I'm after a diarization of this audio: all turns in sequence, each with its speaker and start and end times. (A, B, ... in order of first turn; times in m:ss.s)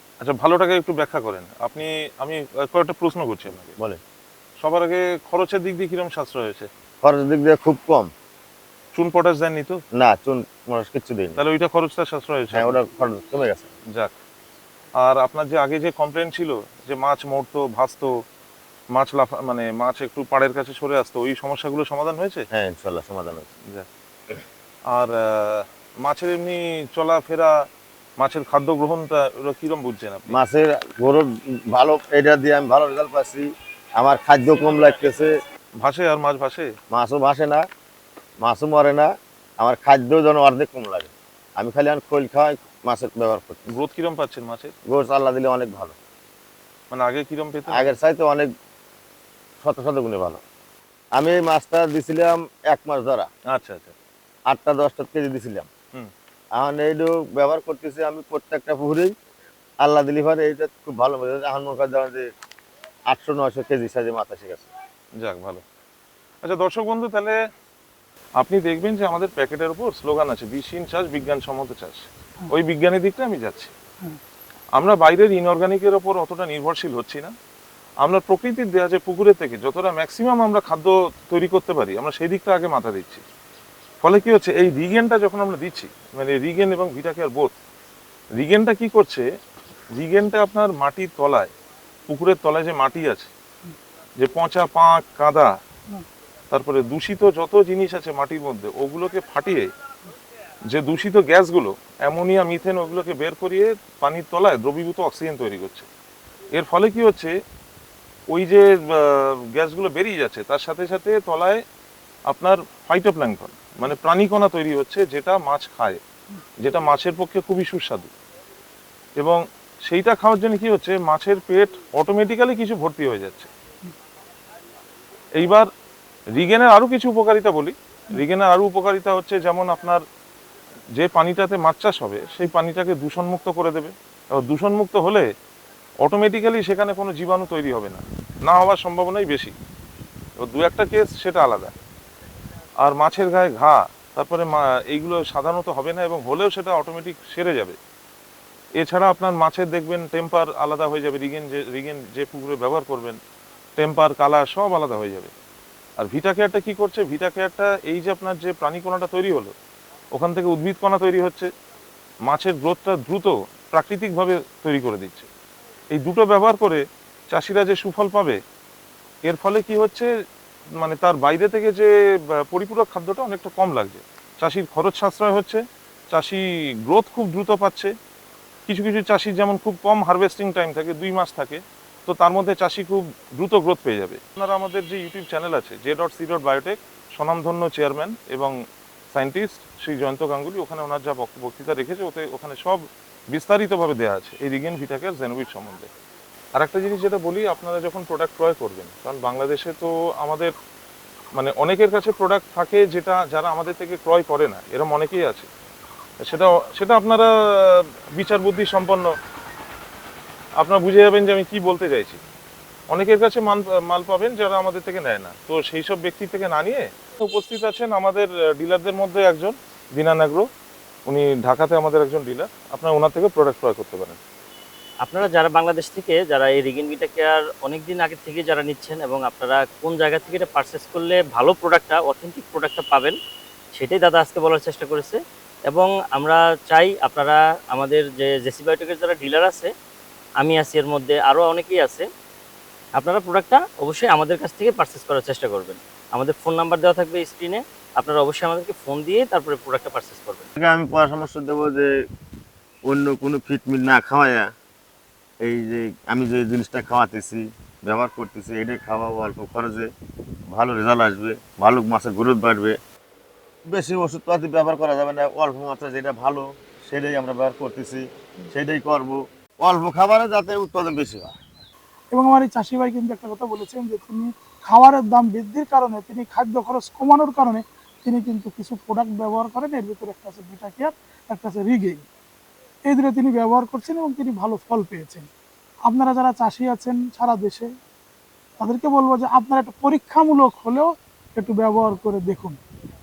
0:00.2-0:03.7 A
0:03.6-0:04.0 B
0:04.6-0:06.7 A
0:07.0-0:08.1 B
0:08.9-0:09.8 A
0:10.0-0:11.4 B
0:11.4-0:12.8 A
0:12.5-0:13.7 B
0:15.0-0:18.1 A
0:18.9-0:22.4 A
0:22.5-0:23.5 B
0:24.9-0:27.5 A
0:28.2-0:30.4 A
0:30.3-0:35.3 B
0:35.8-0:36.7 A
0:36.9-0:37.6 B
0:38.4-0:43.7 B
0:43.7-0:44.7 A
0:44.9-0:46.0 B
0:46.9-0:47.9 A
0:47.7-0:48.5 B
0:49.6-0:50.4 B
0:51.2-0:53.3 B
0:53.5-0:53.9 A
0:54.5-0:55.7 B
0:56.6-0:59.1 B
0:59.8-1:02.3 B
1:03.1-1:04.7 B
1:05.2-1:05.6 A
1:06.4-1:07.3 A
1:08.4-1:13.7 A
1:14.8-1:17.3 A
1:18.0-1:23.2 A
1:24.0-1:27.5 A
1:28.4-1:29.2 A
1:29.9-1:31.5 A
1:32.1-1:33.3 A
1:34.2-1:35.5 A
1:36.5-1:39.7 A
1:40.7-1:45.9 A
1:46.5-1:47.3 A
1:48.3-1:51.6 A
1:52.3-1:56.0 A
1:56.6-1:58.1 A
1:59.2-2:03.5 A
2:05.4-2:05.7 A
2:06.4-2:10.0 A
2:11.0-2:15.2 A
2:16.0-2:19.5 A
2:20.4-2:21.7 A
2:22.8-2:27.8 A
2:28.8-2:33.2 A
2:33.8-2:35.3 A
2:36.0-2:39.5 A
2:40.1-2:41.5 A
2:42.3-2:45.3 A
2:45.9-2:48.4 A
2:49.3-2:50.1 A
2:50.8-2:51.9 A
2:52.5-2:57.9 A
2:58.7-3:08.5 A
3:09.1-3:15.9 A
3:16.6-3:20.5 A
3:21.4-3:25.5 A
3:26.2-3:29.1 A
3:30.6-3:32.2 A
3:32.9-3:40.4 A
3:41.1-3:44.2 A
3:45.0-3:53.2 C
3:53.7-3:59.7 C
4:00.4-4:02.0 C
4:02.9-4:10.5 C
4:10.6-4:11.9 B
4:12.9-4:14.5 B
4:15.4-4:19.9 B
4:20.5-4:22.8 B
4:23.6-4:31.3 B
4:32.1-4:42.1 D
4:42.8-4:45.3 D
4:45.8-4:47.7 D
4:48.6-4:52.6 D